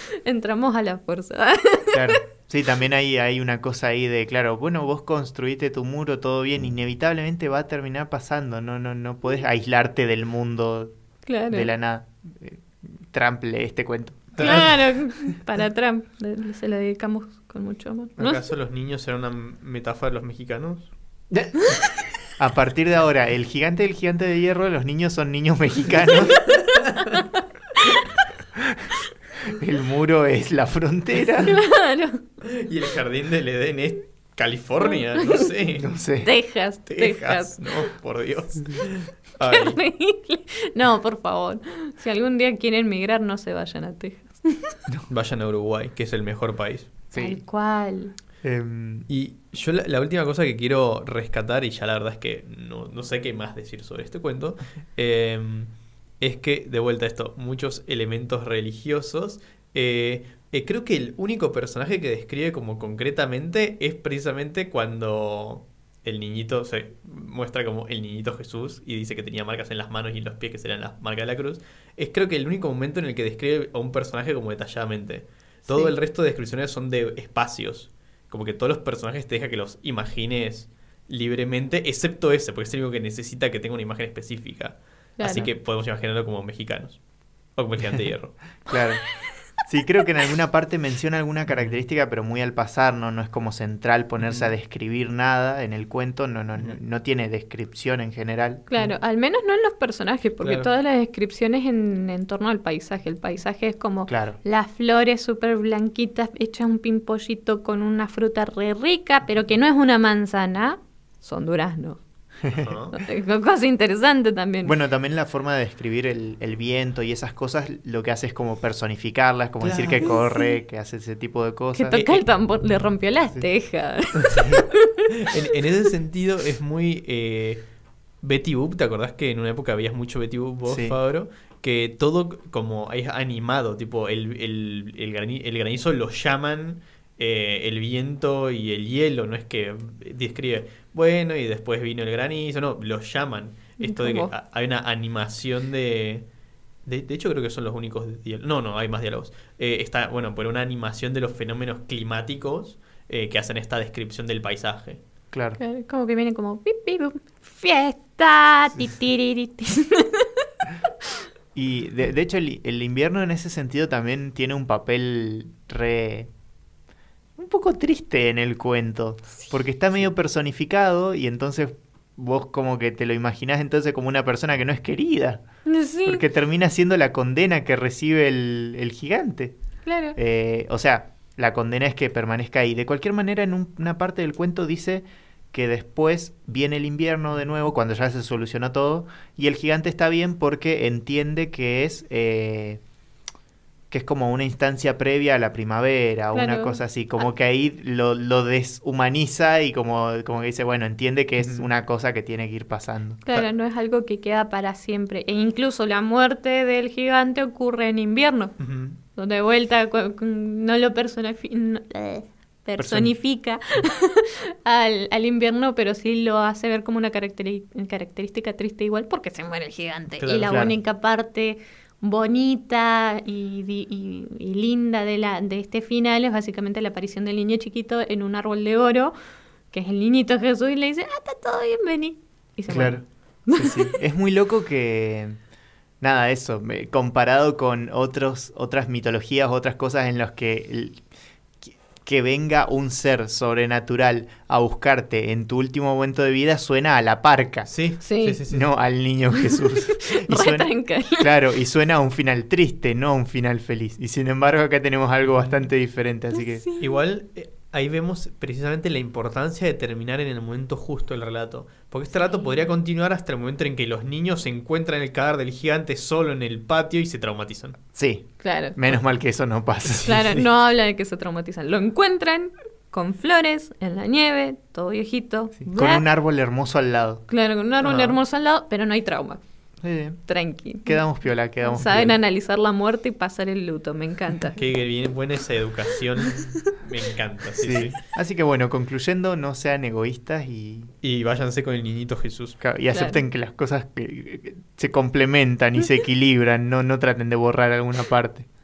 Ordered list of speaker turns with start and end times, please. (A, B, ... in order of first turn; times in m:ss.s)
0:00.2-0:02.2 A
0:01.9-0:10.9 B
0:11.2-0:11.7 A
0:11.5-0:14.7 B
0:14.3-0:14.8 C
0:14.4-0:18.4 A
0:18.2-0:20.9 C
0:21.3-0:21.7 B
0:22.4-0:26.5 B
0:26.6-0:28.1 A
0:28.6-0:28.9 B
0:29.4-0:31.6 B
0:31.4-0:32.2 A
0:32.4-0:35.9 C
0:34.9-0:35.4 A
0:35.8-0:36.3 B
0:36.2-0:37.9 A
0:36.9-0:39.8 C
0:39.4-0:44.7 A
0:45.1-0:46.9 C
0:47.1-0:47.4 B
0:47.1-0:48.1 A
0:48.4-0:49.1 B
0:49.1-1:27.0 C
1:15.7-1:15.9 A
1:25.2-1:25.5 A
1:27.5-1:28.6 C
1:28.6-1:29.0 B
1:29.6-1:38.6 B
1:31.5-1:31.7 C
1:34.2-1:34.5 C
1:38.7-1:52.0 A
1:40.4-1:40.7 C
1:44.1-1:44.4 B
1:52.4-1:52.7 B
1:52.5-1:53.0 C
1:52.9-1:54.7 A
1:54.6-2:02.2 B
1:59.6-2:00.1 C
2:00.0-2:00.5 A
2:01.7-2:05.1 A
2:04.3-2:07.7 C
2:08.2-2:26.2 C
2:10.7-2:11.0 B
2:23.8-2:24.3 A
2:26.8-2:35.0 C
2:35.3-2:35.6 B
2:35.6-2:40.4 A
2:41.5-2:46.3 B
2:47.4-2:55.4 B
2:55.6-2:56.2 A
2:56.0-2:59.6 B
2:59.8-3:00.2 A
3:00.2-3:12.8 B
3:13.9-3:23.2 B
3:16.3-3:16.8 A
3:21.4-3:21.7 C
3:23.2-3:28.5 A
3:28.6-3:29.0 C
3:29.2-3:49.1 A
3:32.8-3:33.2 B
3:40.2-3:40.7 C
3:49.7-3:53.9 A
3:52.7-3:55.4 B
3:56.0-4:01.0 B
4:01.7-4:07.7 B
4:07.7-4:08.7 C
4:08.0-4:08.4 A
4:08.5-4:16.6 B
4:09.4-4:11.3 A
4:15.3-4:15.6 C
4:16.3-4:16.9 A
4:16.8-4:27.8 C
4:22.1-4:22.7 A
4:27.9-4:30.4 B
4:28.4-4:28.8 A
4:30.0-4:36.0 A
4:35.6-4:37.2 B
4:37.3-4:39.4 A
4:37.8-4:38.2 C
4:39.8-4:40.2 B
4:40.3-4:41.0 A
4:40.8-4:42.1 B
4:41.6-4:44.6 A
4:41.8-4:42.1 C
4:44.6-4:48.0 C
4:46.3-4:46.7 A
4:47.6-4:50.9 B
4:51.0-4:52.6 C
4:52.6-4:58.5 B
4:52.9-4:53.2 A